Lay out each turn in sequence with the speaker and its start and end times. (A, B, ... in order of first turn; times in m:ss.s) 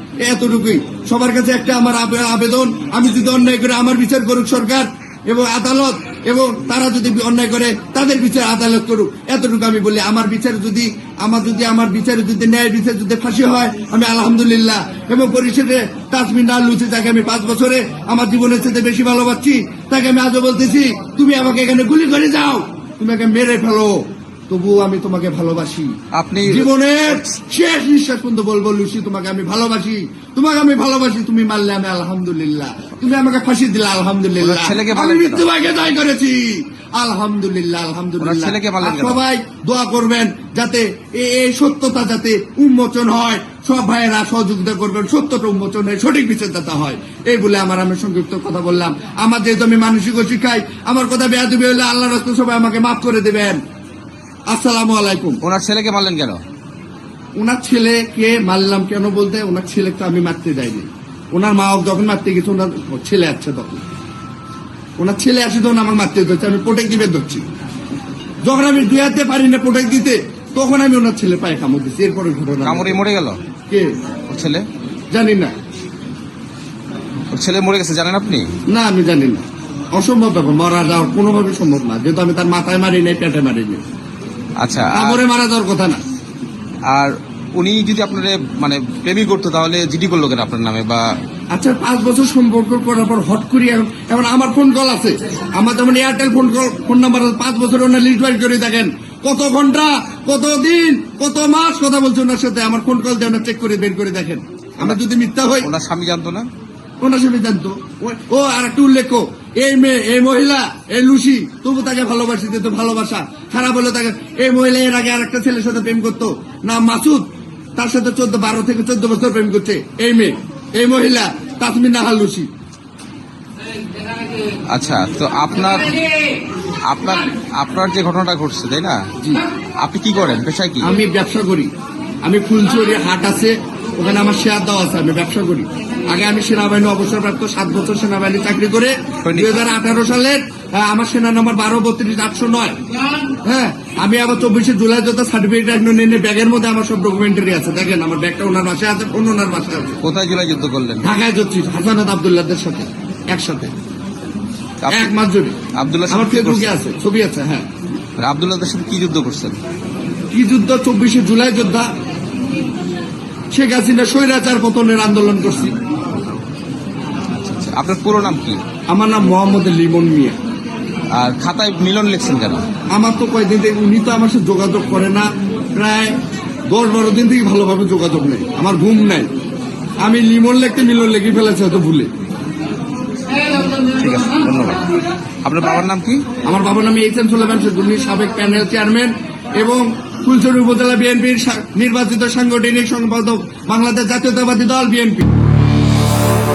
0:00.2-0:53.6 A
0:26.1-0:27.2 B
0:34.4-0:35.4 B
0:38.2-0:39.2 B
0:54.5-0:55.4 A
0:55.4-0:56.4 B
0:57.4-1:03.8 A
1:05.0-1:07.4 A
1:08.4-1:13.0 A
1:12.6-1:13.4 B
1:14.3-1:14.7 B
1:15.1-1:15.5 A
1:17.3-1:18.5 B
1:18.7-1:19.4 A
1:19.9-1:23.8 A
1:24.6-1:25.2 B
1:24.9-1:26.0 A
1:26.9-1:31.1 B
1:31.5-1:45.7 A
1:45.6-1:46.5 B
1:47.0-2:02.5 A
2:04.7-2:06.0 B
2:06.8-2:09.0 B
2:09.8-2:10.9 B
2:10.8-2:11.7 A
2:12.2-2:22.8 A
2:19.2-2:19.6 B
2:23.4-2:30.0 A
2:30.0-2:31.1 B
2:31.0-2:33.7 A
2:34.8-2:35.1 B
2:34.9-2:35.6 A
2:35.8-2:36.7 B
2:36.1-2:37.7 A
2:38.2-2:39.6 B
2:40.3-2:41.9 A
2:43.5-2:45.7 A
2:47.4-2:48.6 B
2:48.9-2:50.4 A
2:51.1-2:52.6 B
2:52.9-2:56.2 A
2:56.7-2:59.3 A
3:00.0-3:02.1 A
3:03.9-3:04.8 B
3:05.4-3:06.2 B
3:06.4-3:15.3 A